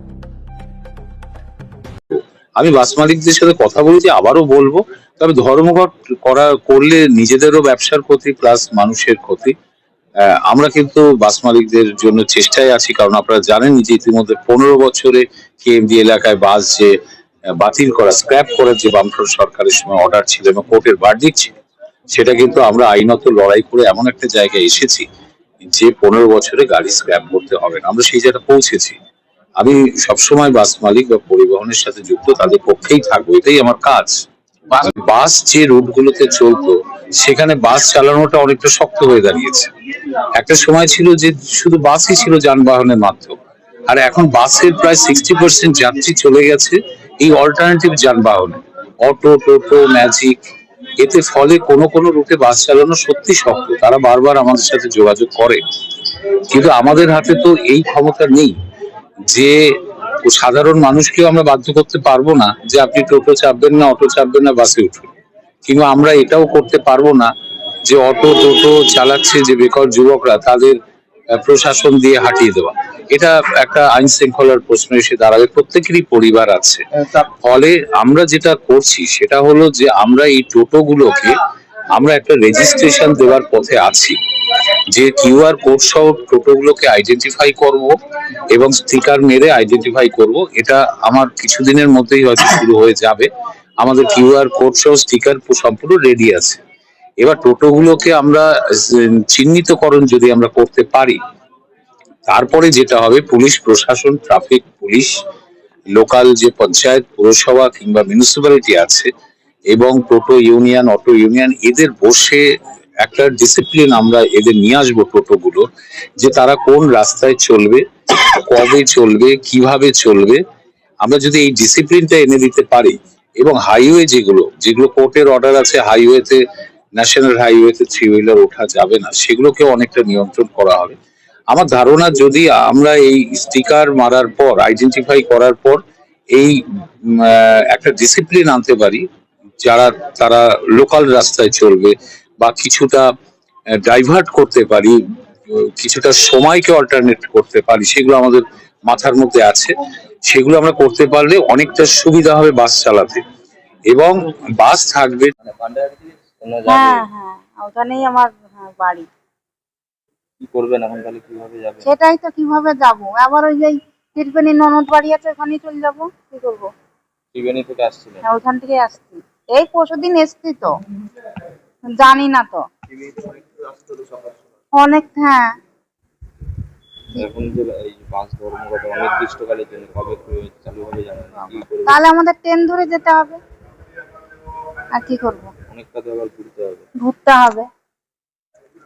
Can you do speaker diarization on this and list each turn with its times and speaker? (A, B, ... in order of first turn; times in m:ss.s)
0:02.1-0:09.5 A
0:10.3-0:17.0 A
0:17.6-0:21.5 A
0:22.1-0:25.1 A
0:25.6-0:29.0 A
0:29.6-0:39.7 A
0:40.3-0:50.4 A
0:51.0-0:55.6 A
0:56.5-0:58.6 A
0:59.3-0:59.6 A
1:00.2-1:05.1 A
1:05.7-1:07.3 A
1:07.9-1:10.8 A
1:11.4-1:21.3 A
1:21.9-1:24.2 A
1:24.9-1:27.9 A
1:28.5-1:33.3 A
1:33.8-1:36.6 A
1:37.2-1:41.2 A
1:42.3-1:45.2 A
1:46.0-1:49.1 A
1:49.7-1:52.4 A
1:53.0-1:55.6 A
1:56.2-2:00.4 A
2:01.0-2:06.4 A
2:07.0-2:11.0 A
2:11.5-2:15.8 A
2:16.3-2:16.6 A
2:17.2-2:19.0 A
2:19.6-2:23.1 A
2:23.8-2:25.0 A
2:25.5-2:29.7 A
2:30.3-2:33.2 A
2:33.9-2:35.3 A
2:35.4-2:37.1 B
2:36.7-2:39.1 C
2:40.4-2:41.9 B
2:41.8-2:46.7 C
2:47.3-2:48.2 B
2:48.2-2:50.7 C
2:51.9-2:52.6 C
2:53.0-2:54.3 B
2:54.7-2:55.5 C
2:57.2-3:02.0 B
3:01.8-3:03.4 C
3:04.9-3:05.5 C
3:05.7-3:06.9 B
3:07.0-3:07.7 C